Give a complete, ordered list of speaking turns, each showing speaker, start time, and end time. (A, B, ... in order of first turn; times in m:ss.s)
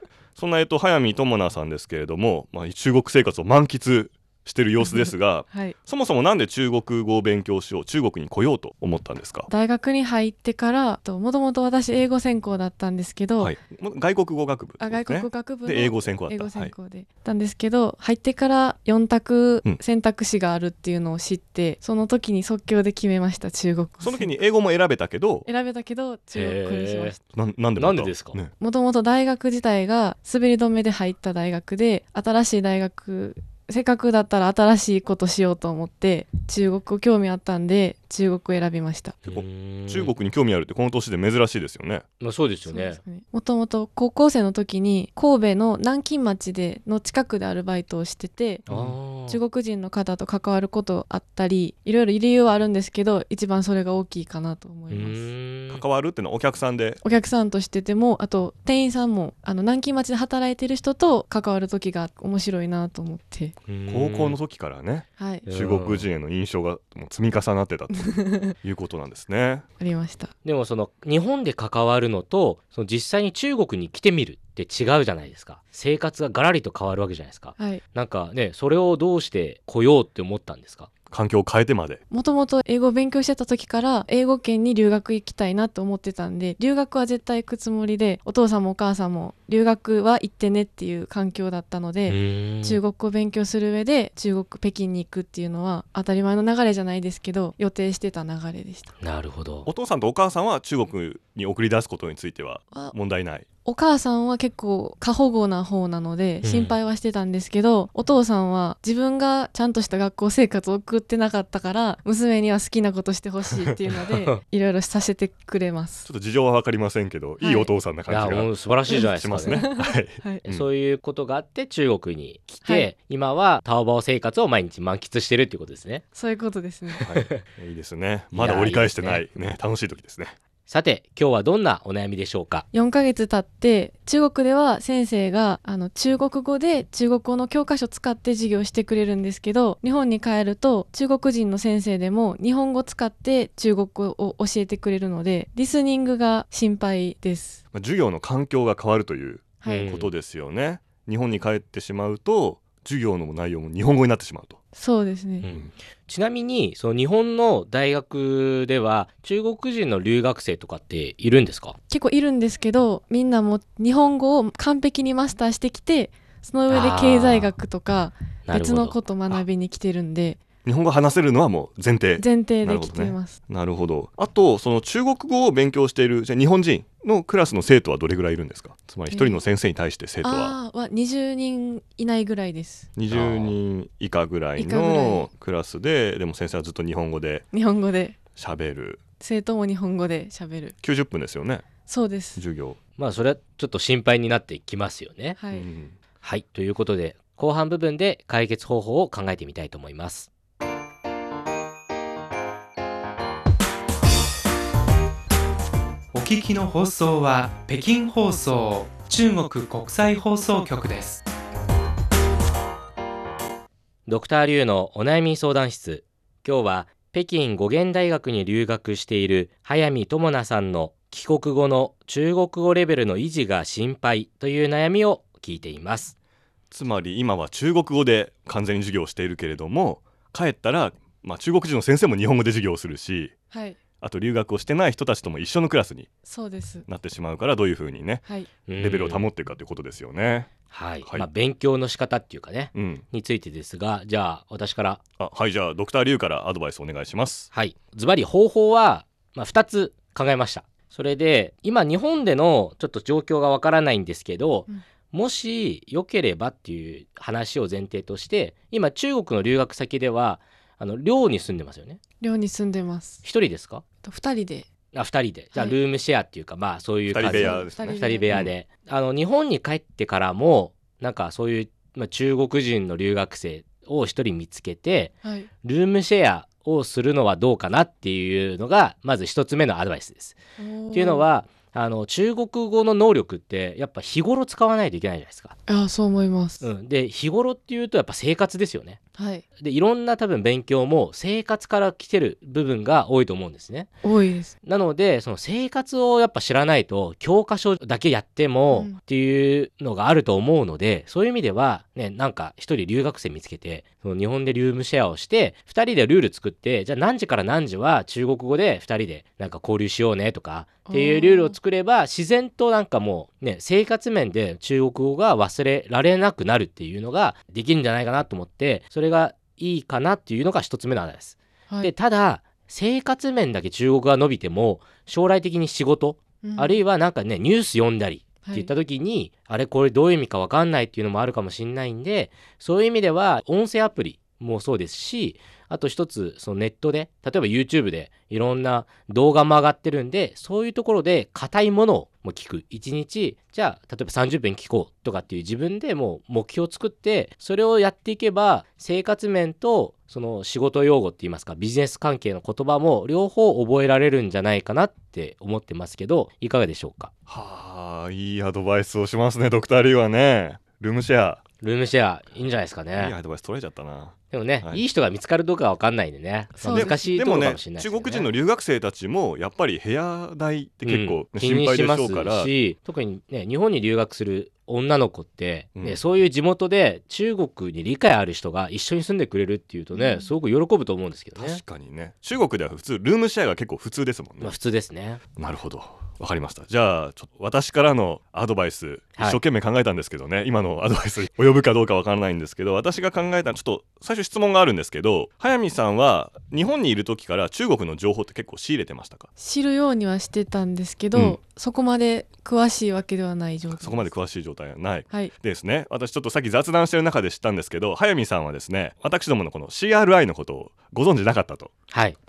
0:00.4-0:09.5 A
0:04.8-0:05.8 B
0:09.5-0:13.5 B
0:13.4-0:16.7 A
0:14.8-0:24.3 B
0:24.0-0:25.5 A
0:25.4-0:27.2 B
0:26.3-0:27.2 C
0:27.3-0:28.5 A
0:27.8-0:28.4 C
0:28.6-0:39.2 B
0:39.2-0:40.1 C
0:39.2-0:42.0 A
0:42.2-0:43.0 C
0:42.7-0:48.7 B
0:48.7-0:49.0 A
0:48.7-0:49.4 C
0:49.3-0:55.3 B
0:54.9-0:55.8 C
0:55.7-0:57.0 A
0:57.0-1:03.5 B
1:03.7-1:04.4 C
1:03.9-1:09.6 A
1:05.2-1:05.5 B
1:05.4-1:06.1 C
1:08.0-1:08.5 B
1:09.8-1:10.3 B
1:10.4-1:20.9 C
1:17.6-1:17.8 B
1:21.1-1:22.0 A
1:22.1-1:38.9 B
1:32.1-1:32.8 C
1:39.0-1:39.7 C
1:39.6-1:43.4 A
1:43.6-1:56.1 B
1:46.4-1:46.7 C
1:54.0-1:54.4 C
1:56.0-2:00.6 A
1:57.4-1:57.7 B
1:58.1-1:59.6 C
1:59.4-2:00.4 B
2:00.4-2:06.0 C
2:06.1-2:07.0 B
2:06.9-2:07.3 C
2:07.0-2:10.4 A
2:08.3-2:09.2 C
2:10.7-2:12.7 C
2:12.7-2:27.6 B
2:27.7-2:34.6 A
2:29.6-2:29.9 B
2:29.7-2:30.1 C
2:34.7-2:35.5 B
2:35.4-2:41.7 C
2:41.9-2:50.4 B
2:46.7-2:47.5 C
2:48.5-2:49.0 C
2:50.6-3:00.5 A
2:52.2-2:53.3 B
2:59.1-2:59.4 B
3:00.2-3:02.9 B
3:03.0-3:07.4 A
3:03.1-3:03.6 C
3:04.6-3:05.3 B
3:07.5-3:08.2 B
3:08.4-3:09.0 A
3:09.2-3:10.7 B
3:10.8-3:11.6 A
3:11.8-3:12.4 B
3:12.4-3:12.8 A
3:13.0-3:15.4 C
3:15.4-3:15.7 B
3:15.5-3:15.9 A
3:16.2-3:20.3 C
3:26.1-3:31.2 D
3:34.1-3:46.1 C
3:46.7-3:53.3 A
3:53.5-3:53.8 B
3:54.0-3:56.1 A
3:56.2-3:56.8 B
3:56.9-3:58.2 A
3:58.7-3:59.2 C
3:58.8-4:00.5 A
4:00.7-4:05.0 C
4:02.7-4:03.0 A
4:05.2-4:07.5 A
4:07.5-4:22.0 C
4:22.2-4:23.2 B
4:23.2-4:23.8 C
4:24.0-4:24.7 B
4:24.9-4:40.4 C
4:27.1-4:28.5 A
4:27.2-4:28.4 B
4:35.2-4:35.5 B
4:40.6-4:41.2 B
4:40.9-4:45.5 C
4:45.7-4:46.7 B
4:46.6-4:49.0 C
4:49.1-4:49.4 B
4:49.6-4:53.9 C
4:54.0-4:54.5 B
4:54.6-5:57.1 C
4:58.7-4:59.0 B
5:10.9-5:11.6 B
5:26.4-5:26.8 B
5:28.4-5:28.7 B
5:57.3-6:01.4 A
6:01.6-6:03.1 C
6:03.0-6:04.8 A
6:04.3-6:08.3 C
6:06.6-6:07.2 B
6:06.6-6:12.5 A
6:10.8-6:21.6 C
6:15.8-6:16.0 A
6:19.9-6:20.3 B
6:21.4-6:24.6 A
6:24.4-6:25.2 C
6:25.4-6:39.3 A
6:39.4-6:44.1 B
6:43.7-6:51.7 A
6:51.9-6:52.2 C